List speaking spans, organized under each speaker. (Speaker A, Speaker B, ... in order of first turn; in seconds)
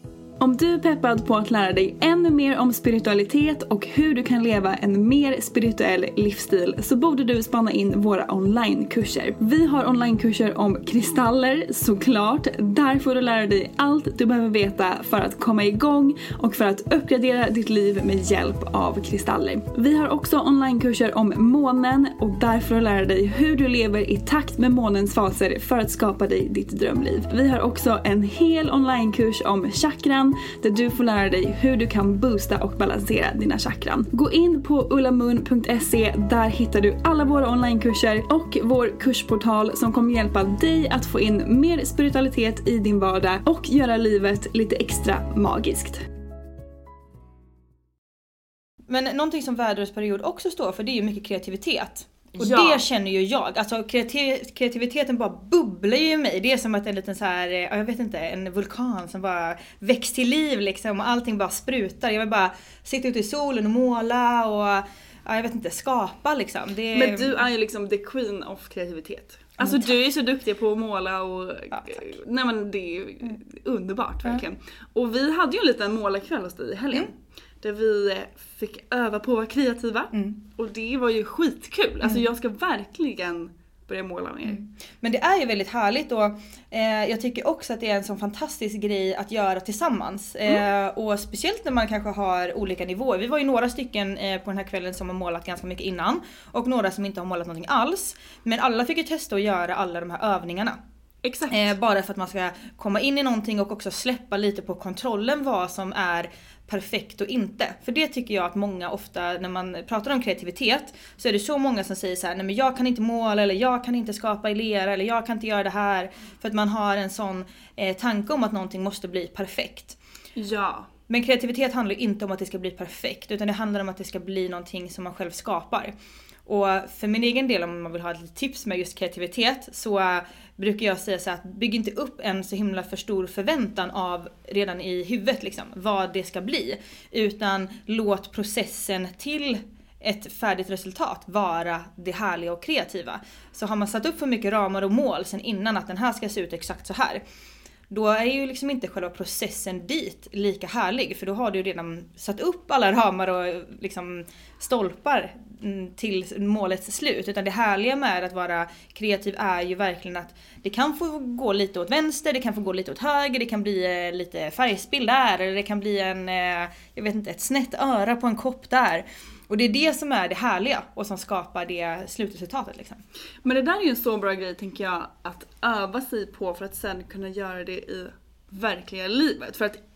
Speaker A: 0.4-46.0, 52.4-52.9, 66.9-84.6, 101.2-101.8, 120.4-120.9, 173.4-179.8
Speaker B: 48.9-67.4, 69.6-69.9, 71.7-72.1, 84.5-100.8, 101.5-120.0, 121.1-126.0, 126.5-147.2, 147.9-173.0